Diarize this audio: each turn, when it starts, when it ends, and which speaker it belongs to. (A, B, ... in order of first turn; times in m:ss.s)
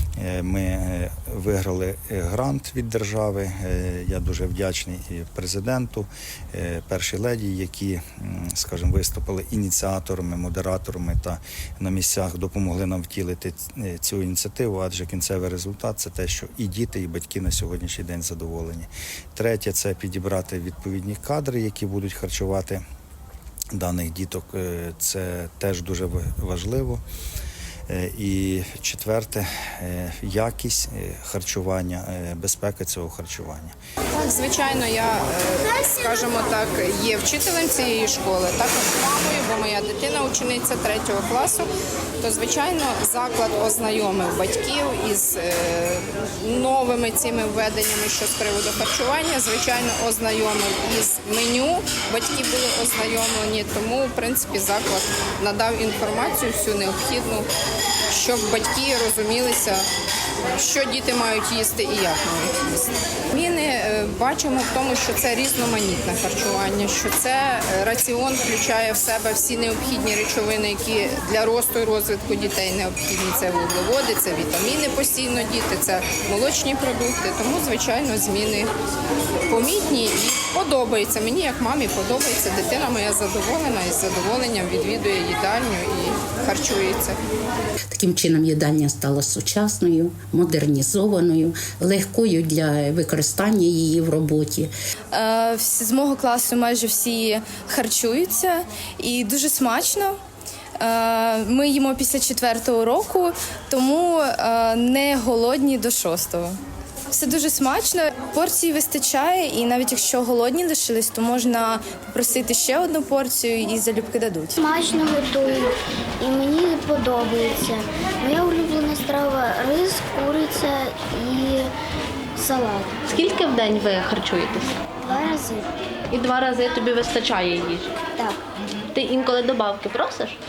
0:00.2-0:22.8 A
0:23.7-0:27.0 A
0:27.9-0:33.8 A
0:34.1-0:41.7 B
0:42.2-0:57.5 B
0:58.1-0:59.9 B
1:00.5-1:18.7 B
1:19.5-1:27.2 B
1:27.9-1:34.7 C
1:35.1-1:40.2 D
1:40.8-1:46.6 D
1:47.1-1:54.6 D
1:54.6-2:01.7 E
2:02.4-2:03.0 E
2:03.1-2:04.8 F
2:05.0-2:05.7 E
2:06.1-2:08.0 F
2:08.2-2:08.4 E
2:08.6-2:10.4 F